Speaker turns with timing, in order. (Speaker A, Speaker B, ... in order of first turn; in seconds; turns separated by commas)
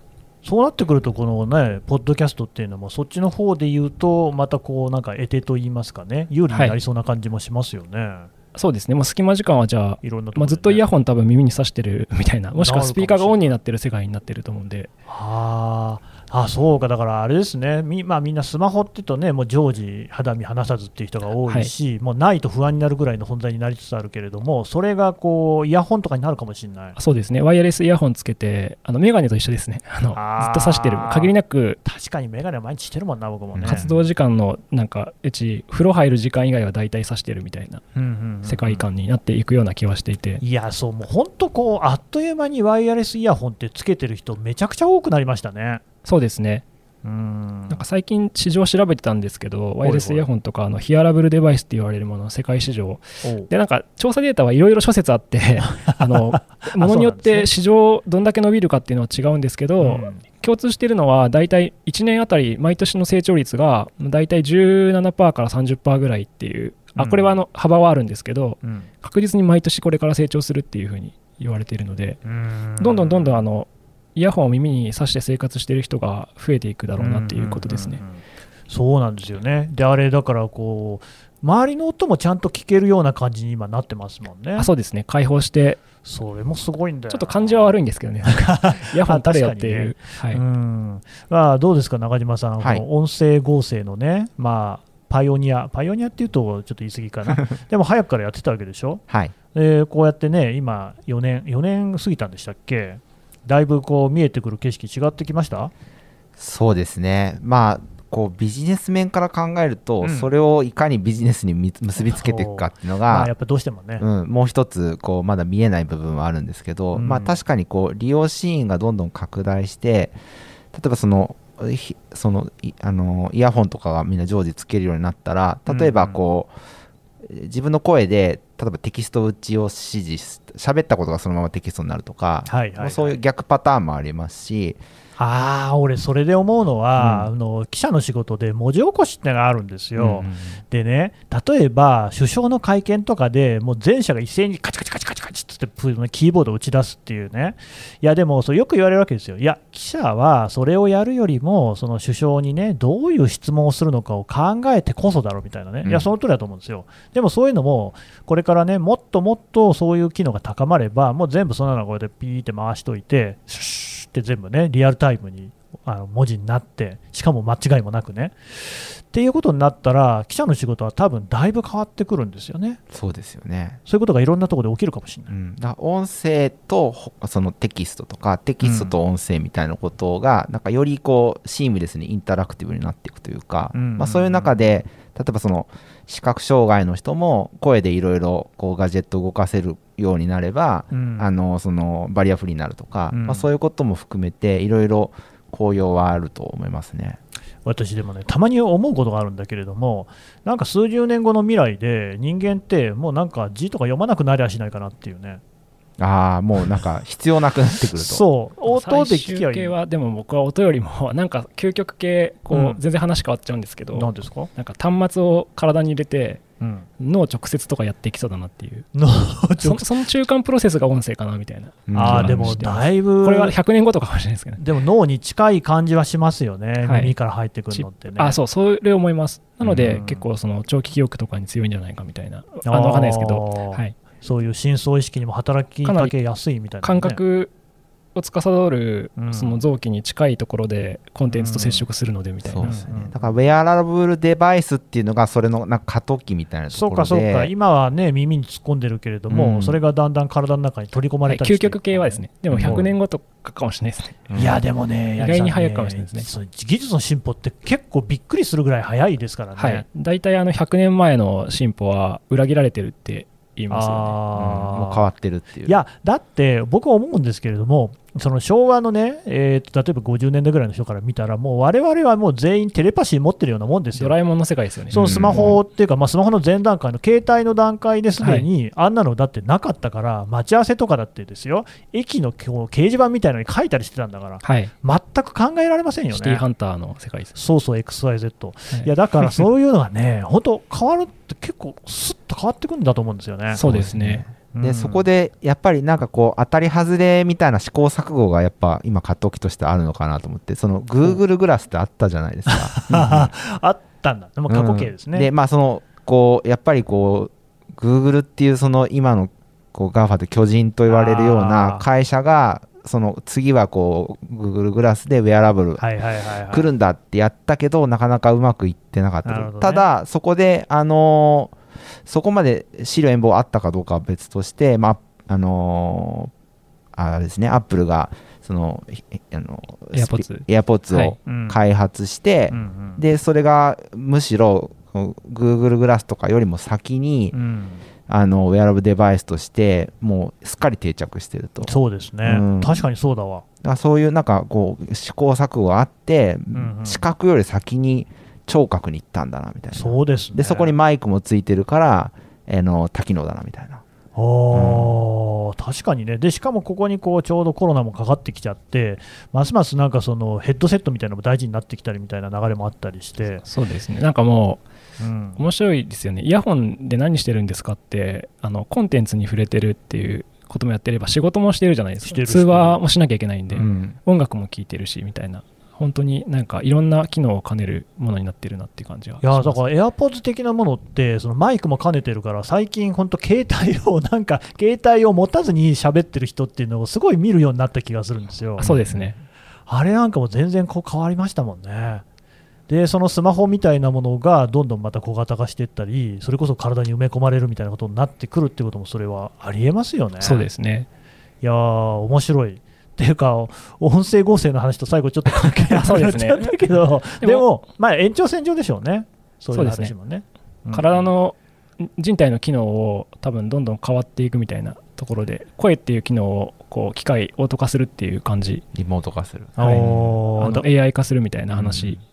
Speaker A: 0.4-8.3, Speaker B: 6.5-6.8, Speaker B: 8.5-14.9, Speaker A: 10.0-10.8, Speaker A: 12.5-13.5, Speaker A: 15.1-27.0, Speaker B: 26.9-31.8, Speaker A: 30.1-31.3, Speaker A: 31.8-33.9, Speaker C: 33.5-33.9, Speaker B: 33.6-37.8, Speaker A: 37.9-38.9, Speaker B: 38.4-40.4, Speaker A: 40.4-45.8, Speaker B: 46.0-46.6, Speaker A: 47.0-47.8, Speaker B: 47.7-72.2, Speaker A: 49.8-50.2, Speaker A: 53.2-53.5, Speaker A: 55.7-57.5, Speaker A: 59.8-60.2, Speaker A: 67.0-67.4, Speaker A: 68.6-68.9, Speaker A: 72.2-73.4, Speaker B: 72.8-78.0, Speaker A: 77.0-84.7, Speaker B: 84.6-85.8, Speaker A: 86.0-105.7, Speaker B: 87.1-90.4, Speaker C: 99.1-99.3, Speaker C: 106.4-113.3, Speaker A: 110.0-110.3, Speaker A: 112.0-114.0, Speaker C: 114.0-120.2, Speaker A: 116.9-117.4, Speaker C: 120.7-126.5, Speaker A: 125.7-126.2, Speaker C: 127.2-134.8, Speaker A: 132.5-133.2, Speaker A: 135.2-172.8, Speaker C: 136.9-137.3, Speaker C: 139.9-140.6, Speaker C: 155.8-156.1, Speaker C: 172.9-173.8, Speaker A: 173.9-175.3, Speaker C: 175.3-197.2, Speaker A: 178.6-178.9, Speaker A: 183.7-184.5, Speaker A: 190.9-191.3, Speaker A: 193.1-193.4, Speaker A: 197.6-205.4, Speaker C: 206.0-208.2, Speaker A: 207.9-209.7, Speaker B: 208.7-216.4, Speaker A: 212.5-212.8, Speaker A: 213.9-214.5, Speaker A: 216.6-216.9, Speaker B: 217.0-218.9, Speaker A: 218.9-219.9, Speaker B: 219.6-224.6, Speaker C: 221.9-222.6, Speaker A: 221.9-223.6, Speaker A: 224.6-228.4, Speaker B: 226.8-227.1, Speaker B: 227.7-233.9, Speaker A: 229.6-230.2, Speaker A: 232.6-237.2, Speaker B: 235.8-236.1, Speaker B: 236.8-237.5, Speaker B: 238.1-242.7, Speaker A: 239.2-239.6, Speaker A: 241.3-241.8, Speaker C: 242.4-247.5, Speaker A: 242.6-243.2, Speaker A: 246.7-252.9, Speaker C: 249.3-249.8, Speaker B: 251.3-254.2, Speaker C: 252.5-252.8, Speaker C: 254.3-254.6, Speaker A: 254.3-259.8, Speaker B: 255.2-256.3, Speaker B: 259.6-264.2, Speaker A: 263.7-265.1, Speaker C: 264.4-265.8, Speaker A: 265.6-274.2, Speaker B: 273.9-275.5, Speaker A: 274.9-286.4, Speaker C: 274.9-275.6, Speaker B: 278.2-278.5, Speaker B: 284.4-284.7, Speaker B: 286.1-287.3, Speaker A: 287.3-293.6, Speaker B: 293.6-294.2, Speaker C: 293.6-303.3, Speaker A: 294.5-295.1, Speaker A: 302.5-305.3, Speaker C: 304.5-315.8, Speaker A: 310.9-311.9, Speaker A: 315.8-316.7, Speaker C: 316.5-321.5, Speaker A: 319.2-319.9, Speaker C: 322.1-326.3, Speaker C: 326.9-337.4, Speaker B: 329.9-331.1, Speaker A: 331.3-331.6, Speaker A: 332.5-333.0, Speaker A: 337.3-337.8, Speaker C: 338.1-341.7, Speaker A: 341.6-343.4, Speaker C: 342.2-342.8, Speaker C: 343.6-353.8, Speaker A: 346.5-347.0, Speaker A: 349.7-350.7, Speaker A: 354.1-363.4, Speaker C: 354.5-355.0, Speaker B: 363.4-364.6, Speaker A: 365.0-365.4, Speaker B: 365.4-379.6, Speaker A: 372.0-372.8, Speaker C: 373.5-374.0, Speaker A: 379.2-388.7, Speaker B: 388.6-389.1, Speaker C: 388.6-389.2, Speaker A: 389.7-392.0, Speaker A: 392.7-400.4, Speaker B: 400.2-400.9, Speaker A: 401.4-411.1, Speaker B: 405.7-406.5, Speaker B: 409.5-409.9, Speaker B: 410.7-418.6, Speaker C: 418.7-420.1, Speaker A: 419.6-420.7, Speaker B: 419.6-422.0, Speaker C: 421.5-422.0